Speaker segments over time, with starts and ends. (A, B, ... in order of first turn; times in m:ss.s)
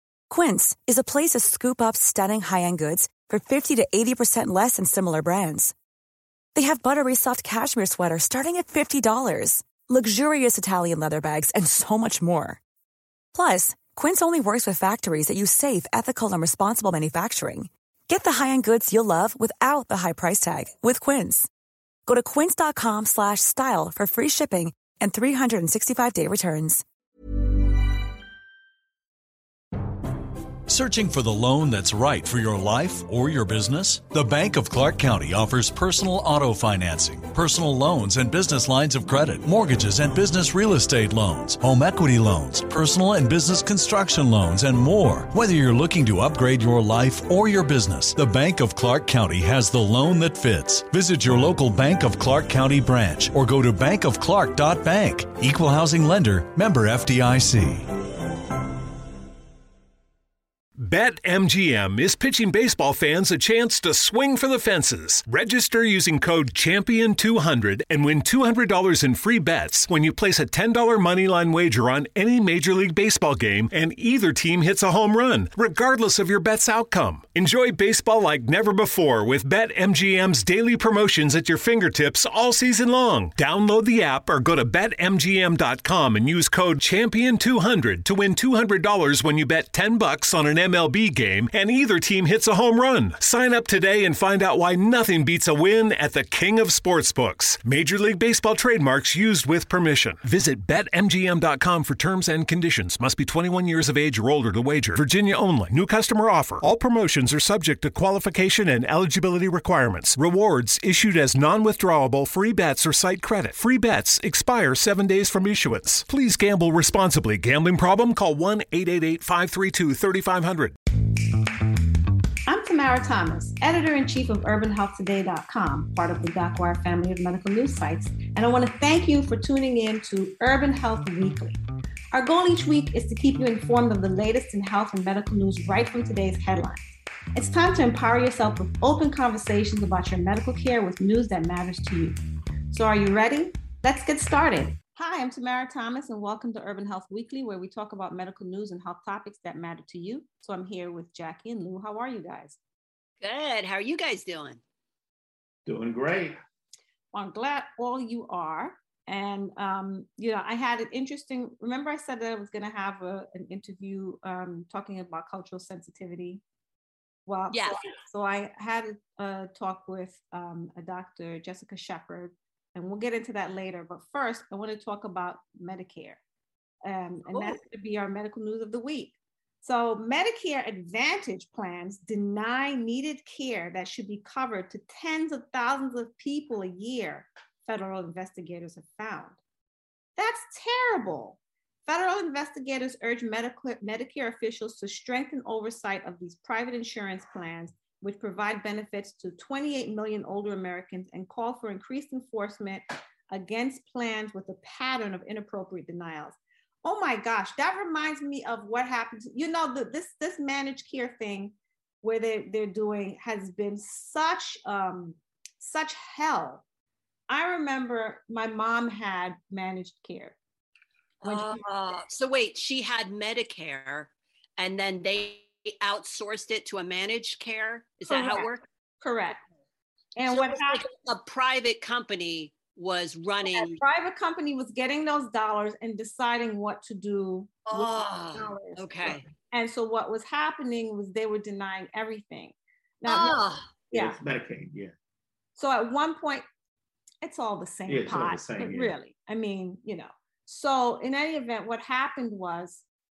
0:00.3-0:05.7 A
0:06.5-0:12.6 A
0:13.3-0:21.5 A
0:22.0-0:26.8 A
0:30.7-0:57.9 B
1:00.8-2:00.8 C
2:02.5-2:11.6 D
2:12.1-2:22.2 D
2:22.7-2:32.6 D
2:33.2-2:34.6 E
2:35.7-2:36.4 F
2:37.1-2:46.4 D
2:47.2-2:56.2 D
2:47.5-2:47.8 E
2:56.8-3:09.4 D
2:57.3-2:57.6 E
3:10.2-3:36.6 D
3:37.3-3:40.3 D
3:41.2-3:48.6 E
3:41.2-3:41.6 D
3:48.1-3:48.5 D
3:49.0-3:49.4 D
3:50.2-3:50.8 D
3:50.3-3:53.8 E
3:53.4-4:03.4 D
3:57.7-3:59.2 E
4:03.1-4:03.7 E
4:03.9-4:04.2 D
4:03.9-4:04.9 F
4:05.6-4:06.4 D
4:07.2-4:12.8 D
4:07.9-4:08.9 F